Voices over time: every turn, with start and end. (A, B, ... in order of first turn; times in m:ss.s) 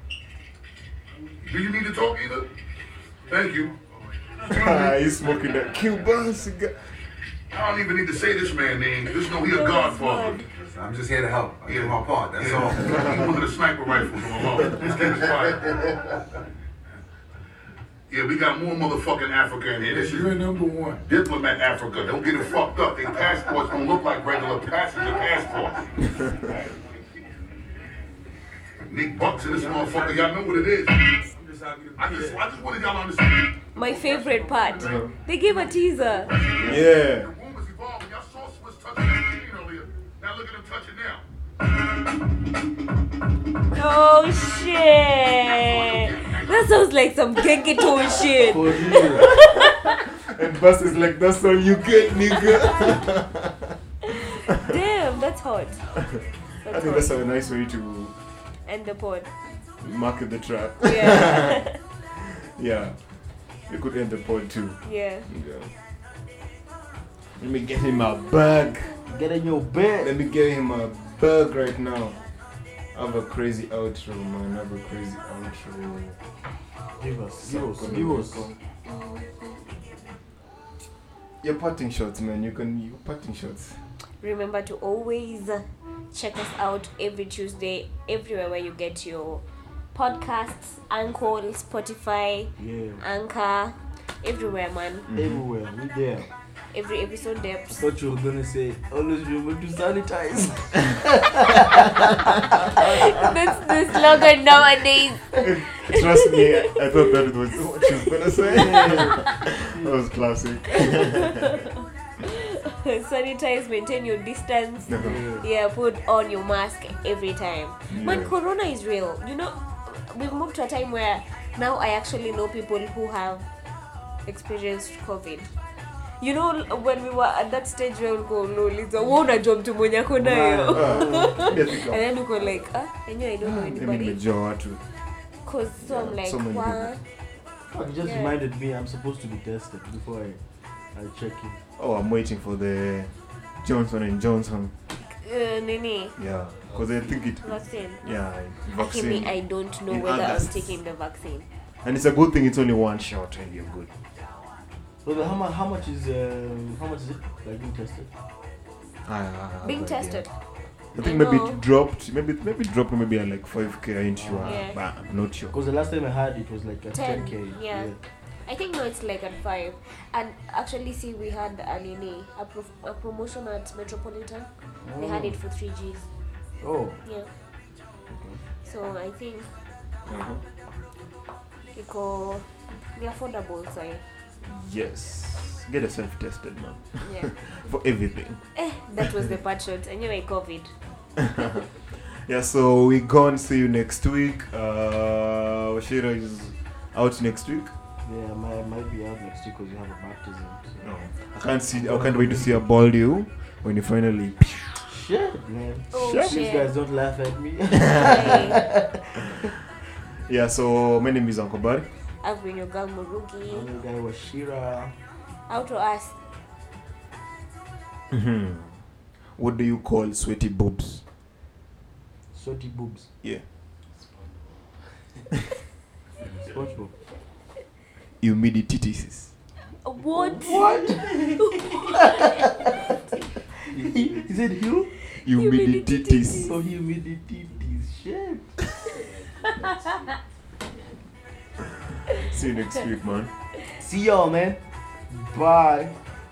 0:01.4-0:02.5 A
0:03.3-0:03.7 A
0:04.4-0:06.9 B
0:04.5-0:05.0 A
0:07.5-0:10.4 A
0:09.1-0:10.4 C
0:10.4-0:13.5 D
0:11.6-0:16.1 A
0:14.7-0:15.3 D
0:18.1-0:20.5 A
0:19.8-0:21.0 D
0:21.0-0:26.6 A
0:26.2-0:26.4 B
0:28.9-0:31.2 A
0:29.2-0:30.7 D
0:31.3-0:32.4 D
0:32.0-0:35.1 A
0:33.7-0:36.4 C
0:34.8-0:35.1 B
0:36.2-0:41.2 A
0:36.6-0:37.3 B
0:43.7-0:50.0 C
0:45.5-0:46.7 A
0:48.4-0:49.3 E
0:49.0-0:53.8 B
0:54.1-0:55.9 C
0:54.4-0:54.7 B
0:55.9-0:58.2 B
0:56.6-0:57.2 C
0:58.6-0:59.3 C
0:59.8-1:01.7 B
1:00.8-1:01.8 C
1:02.2-1:03.0 B
1:03.7-1:05.7 B
1:04.8-1:05.3 C
1:07.4-1:09.0 B
1:09.1-1:10.1 E
1:10.0-1:12.2 B
1:12.9-1:16.2 B
1:17.0-1:18.5 E
1:17.4-1:18.6 B
1:18.8-1:19.6 C
1:21.4-1:23.8 B
1:24.2-1:29.4 C
1:29.9-1:35.1 C
1:32.6-1:33.0 E
1:35.1-1:35.4 B
1:35.2-1:36.3 E
1:36.7-1:37.8 C
1:37.8-1:43.3 E
1:42.8-1:43.2 B
1:42.8-1:47.1 C
1:45.4-1:51.6 B
1:47.9-1:49.4 C
1:48.4-1:49.9 E
1:50.8-2:03.5 C
1:54.9-1:55.2 B
1:55.0-1:55.4 E
1:57.9-1:58.3 B
2:04.3-2:05.5 C
2:06.2-2:14.2 C
2:10.2-2:11.5 E
2:10.7-2:12.0 B
2:13.4-2:14.8 B
2:15.4-2:17.0 C
2:15.8-2:17.0 B
2:17.7-2:20.4 E
2:18.0-2:18.4 C
2:20.9-2:21.6 E
2:21.8-2:24.7 B
2:25.0-2:26.2 C
2:26.2-2:30.8 B
2:27.4-2:28.0 C
2:28.8-2:31.4 C
2:31.8-2:33.9 B
2:35.0-2:38.1 E
2:39.0-2:40.3 B
2:39.6-2:40.3 C
2:40.9-2:45.6 B
2:41.0-2:41.6 C
2:44.2-2:44.6 E
2:44.4-2:44.8 C
2:45.5-2:48.0 E
2:46.9-2:47.9 C
2:48.4-2:56.1 C
2:54.8-2:55.4 E
2:56.6-2:57.0 E
2:58.1-2:58.4 E
2:58.6-2:59.5 C
3:00.1-3:00.4 B
3:01.7-3:04.0 C
3:04.4-3:08.4 B
3:07.0-3:07.3 C
3:08.5-3:10.7 C
3:11.2-3:17.7 B
3:18.0-3:20.8 E
3:20.8-3:24.7 B
3:21.7-3:22.6 E
3:24.8-3:29.5 E
3:25.9-3:26.7 C
3:25.9-3:26.4 B
3:27.9-3:28.4 B
3:27.9-3:28.6 C
3:30.2-3:31.9 B
3:32.2-3:33.7 C
3:33.5-3:34.9 E
3:35.5-3:36.2 C
3:38.1-3:38.8 B
3:39.4-3:41.0 B
3:42.3-3:43.1 E
3:46.4-3:46.9 E
3:48.2-3:49.3 B
3:49.8-3:53.0 C
3:50.1-3:52.4 E
3:53.7-3:54.9 E
3:55.2-3:56.6 C
3:55.2-3:56.5 B
3:56.4-3:58.6 E
3:59.4-4:00.1 C
4:02.1-4:03.3 B
4:03.8-4:04.6 E
4:05.1-4:05.9 E